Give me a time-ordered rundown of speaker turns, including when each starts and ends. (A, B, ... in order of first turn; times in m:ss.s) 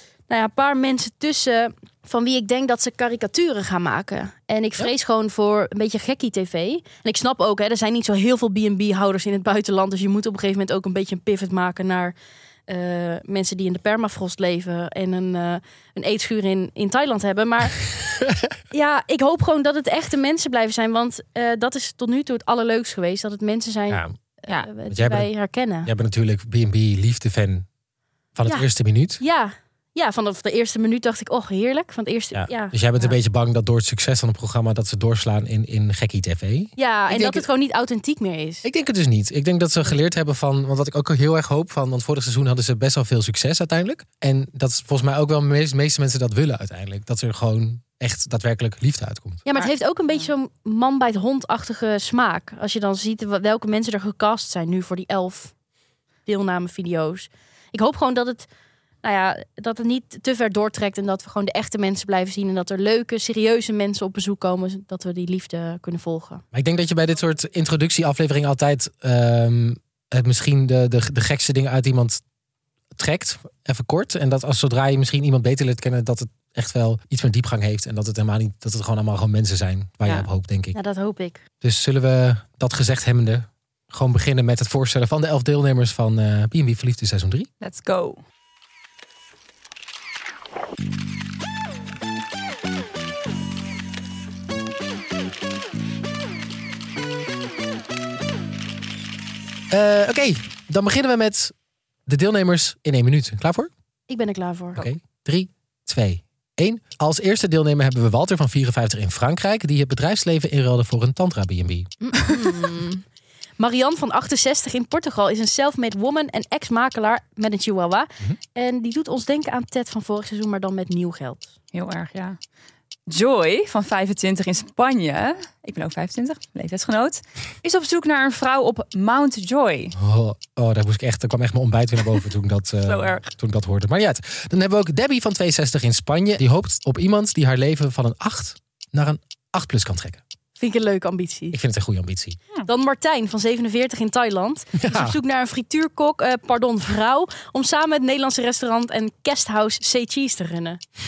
0:00.3-0:12.2 A
0:12.7-0:17.8 A
0:18.7-0:25.9 A
0:23.9-0:24.2 B
0:24.9-0:25.3 B
0:25.8-0:27.6 B
0:28.3-0:29.2 B
0:29.2-0:33.1 A
0:32.3-0:37.4 B
0:36.8-0:38.6 A
0:38.6-0:49.4 B
0:49.4-0:55.5 A
0:56.2-0:58.5 A
0:59.0-1:06.4 A
1:06.5-1:12.2 B
1:12.9-1:20.7 B
1:20.7-1:21.4 A
1:21.6-1:27.5 B
1:27.6-1:28.2 C
1:39.7-1:41.5 B
1:42.0-1:43.7 B
1:44.1-1:44.9 A
1:44.8-1:51.9 B
1:52.0-1:53.0 A
1:53.6-2:01.5 A
2:01.7-2:02.4 C
2:03.1-2:09.9 C
2:09.9-2:20.2 B
2:12.8-2:13.3 C
2:20.6-2:21.6 A
2:21.5-2:22.4 B
2:22.6-2:30.8 A
2:24.8-2:25.2 B